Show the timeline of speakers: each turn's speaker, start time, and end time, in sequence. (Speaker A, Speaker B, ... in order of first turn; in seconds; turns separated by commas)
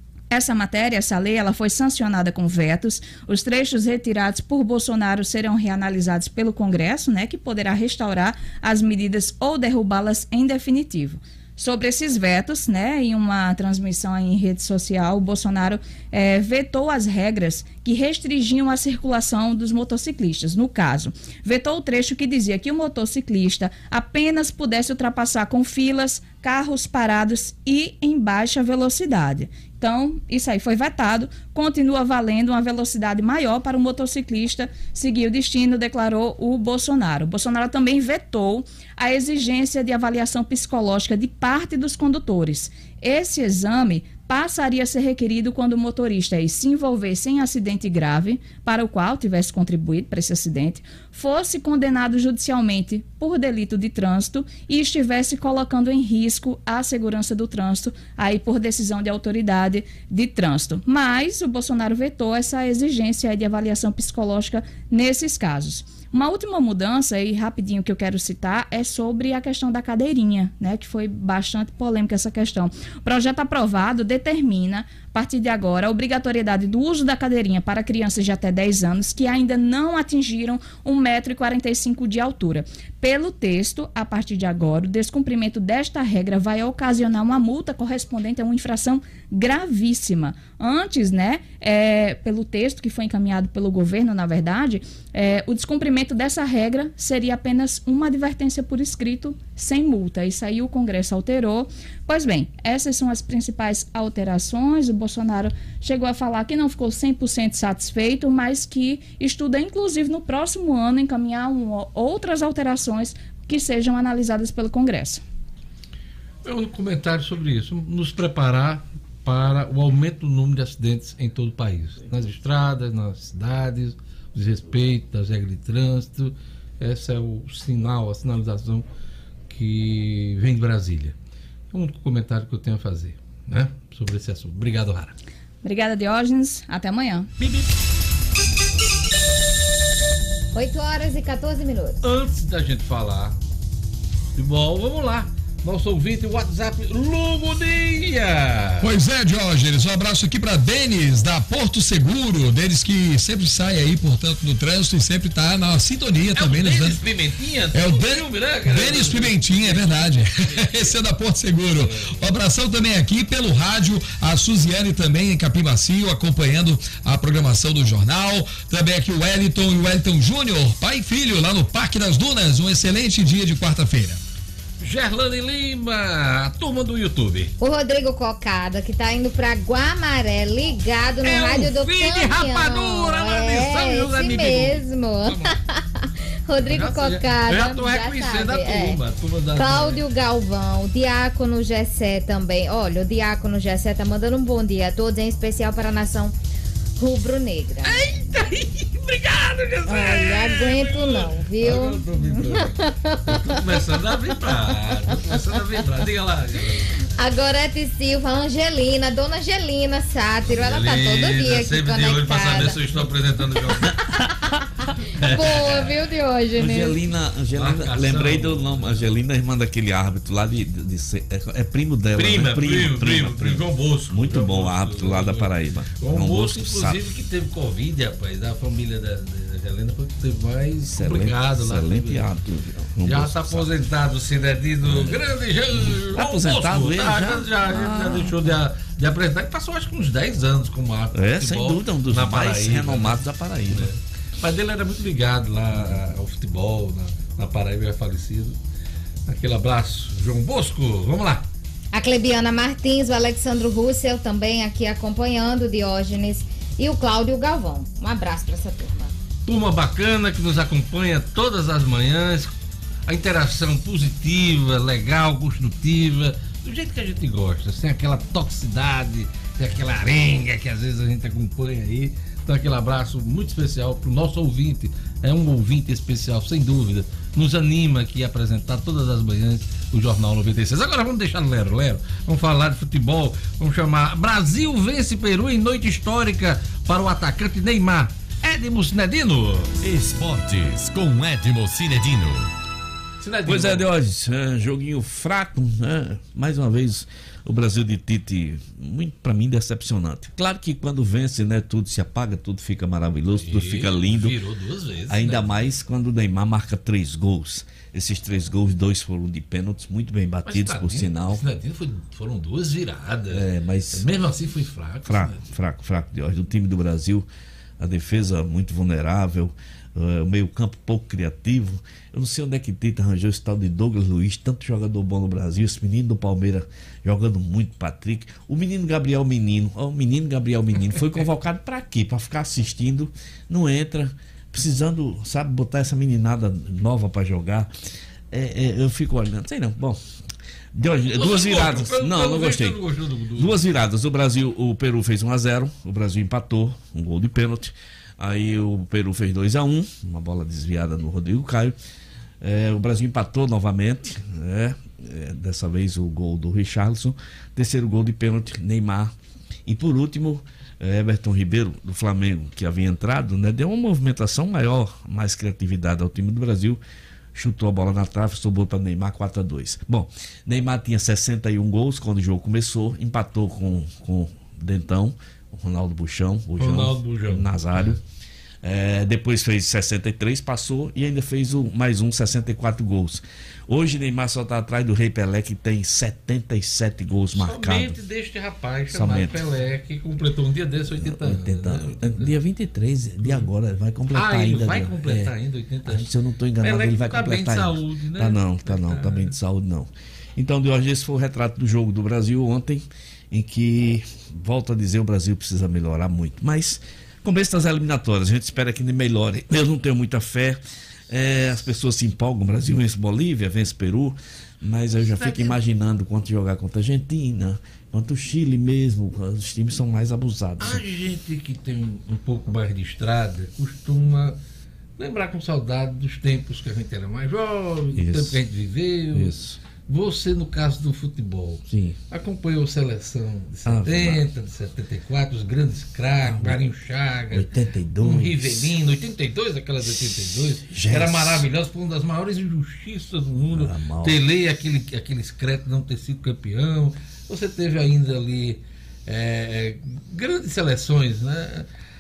Speaker A: 0.3-115.2, Speaker B: 116.4-128.9, Speaker B: 129.5-131.2, Speaker B: 131.7-135.1, Speaker A: 135.6-137.3, Speaker B: 137.4-137.7, Speaker C: 140.6-142.0, Speaker B: 142.0-143.4, Speaker B: 144.3-148.9, Speaker D: 148.8-157.0, Speaker B: 156.3-161.0, Speaker D: 157.7-174.2, Speaker B: 161.8-162.3, Speaker B: 174.8-177.5, Speaker C: 177.6-189.0, Speaker B: 181.2-185.5, Speaker B: 186.6-190.0, Speaker C: 189.6-196.4, Speaker C: 197.0-198.0, Speaker B: 197.8-207.0, Speaker C: 199.9-204.0, Speaker C: 207.2-213.0, Speaker B: 210.5-214.3, Speaker B: 215.1-215.9, Speaker C: 215.2-217.0, Speaker E: 216.6-227.0, Speaker B: 217.5-219.2, Speaker B: 222.1-232.2, Speaker E: 230.9-233.7, Speaker B: 233.1-248.6, Speaker E: 234.8-235.2, Speaker E: 235.8-238.5, Speaker E: 241.1-243.9, Speaker E: 245.8-246.0, Speaker B: 249.3-251.4, Speaker C: 251.9-259.1, Speaker B: 259.5-262.5, Speaker B: 263.1-289.7, Speaker F: 289.8-292.5, Speaker B: 293.2-293.9, Speaker E: 293.5-304.4, Speaker B: 303.4-305.6, Speaker E: 305.1-311.4, Speaker B: 310.5-315.4, Speaker E: 313.3-314.1, Speaker E: 315.1-317.3, Speaker E: 317.8-337.7, Speaker E: 338.3-340.0, Speaker E: 340.7-342.8, Speaker B: 341.1-343.6, Speaker E: 343.4-351.8, Speaker E: 352.4-359.1, Speaker E: 359.7-366.8, Speaker E: 367.4-378.0, Speaker B: 376.6-378.0, Speaker E: 378.6-388.0, Speaker B: 387.3-392.3, Speaker E: 388.9-389.4, Speaker E: 390.9-395.3, Speaker B: 394.1-396.1, Speaker E: 395.9-420.8, Speaker B: 396.6-399.3, Speaker B: 415.0-415.6, Speaker B: 420.6-424.4, Speaker B: 425.0-437.5, Speaker E: 428.0-428.4, Speaker E: 429.1-429.6, Speaker E: 431.7-432.0, Speaker E: 433.7-434.3, Speaker E: 436.2-436.7, Speaker E: 437.3-438.8, Speaker B: 438.0-451.7, Speaker E: 440.7-441.5, Speaker E: 443.5-444.2